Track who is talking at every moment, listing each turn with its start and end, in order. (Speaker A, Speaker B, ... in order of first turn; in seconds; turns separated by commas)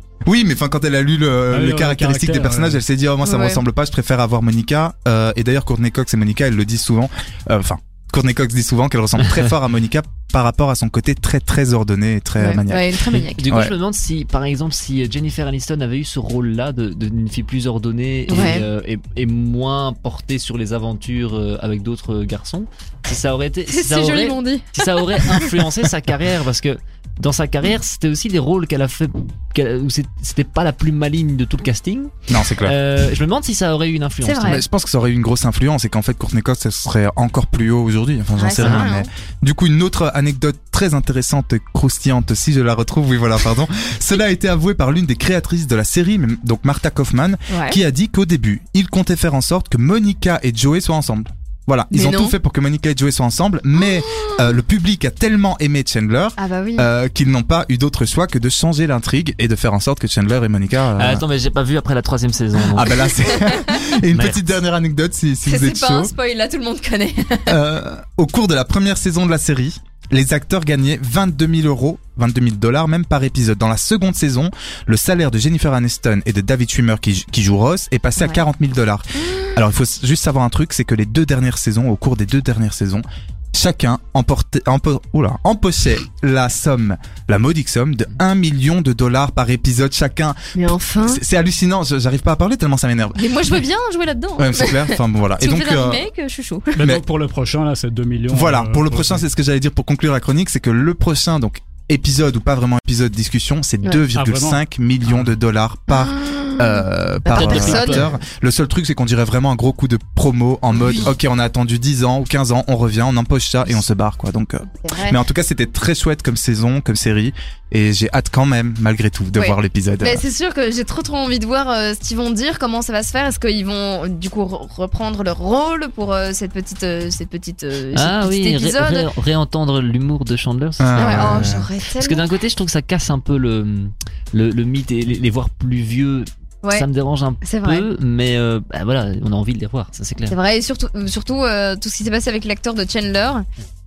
Speaker A: 0.2-12.8, Speaker B: 1.5-2.8, Speaker C: 3.2-3.6, Speaker D: 9.2-9.5, Speaker C: 12.4-13.6, Speaker D: 13.1-34.6, Speaker A: 13.5-13.7, Speaker C: 18.3-18.7, Speaker C: 23.7-25.6, Speaker A: 32.3-32.8, Speaker C: 34.2-34.6, Speaker A: 34.4-61.2, Speaker C: 38.4-39.1, Speaker D: 38.5-38.9, Speaker C: 47.5-47.8, Speaker C: 51.9-52.4, Speaker C: 53.8-54.5, Speaker C: 56.4-56.9, Speaker D: 60.9-62.9, Speaker A: 62.7-66.1, Speaker C: 63.1-63.8, Speaker D: 64.1-64.4, Speaker C: 65.4-67.6, Speaker A: 67.5-83.0, Speaker C: 79.2-79.6, Speaker A: 83.5-90.3, Speaker C: 90.5-91.2, Speaker A: 91.0-93.3, Speaker C: 93.2-96.8, Speaker A: 94.4-96.0, Speaker B: 96.8-99.2, Speaker A: 98.3-120.2, Speaker B: 104.1-105.3, Speaker C: 105.9-108.1, Speaker D: 107.3-108.1, Speaker C: 110.7-111.1, Speaker C: 114.8-115.2, Speaker C: 119.3-129.1, Speaker D: 127.9-140.3, Speaker A: 130.8-131.6, Speaker C: 131.0-132.3, Speaker C: 137.4-137.9, Speaker C: 140.3-143.4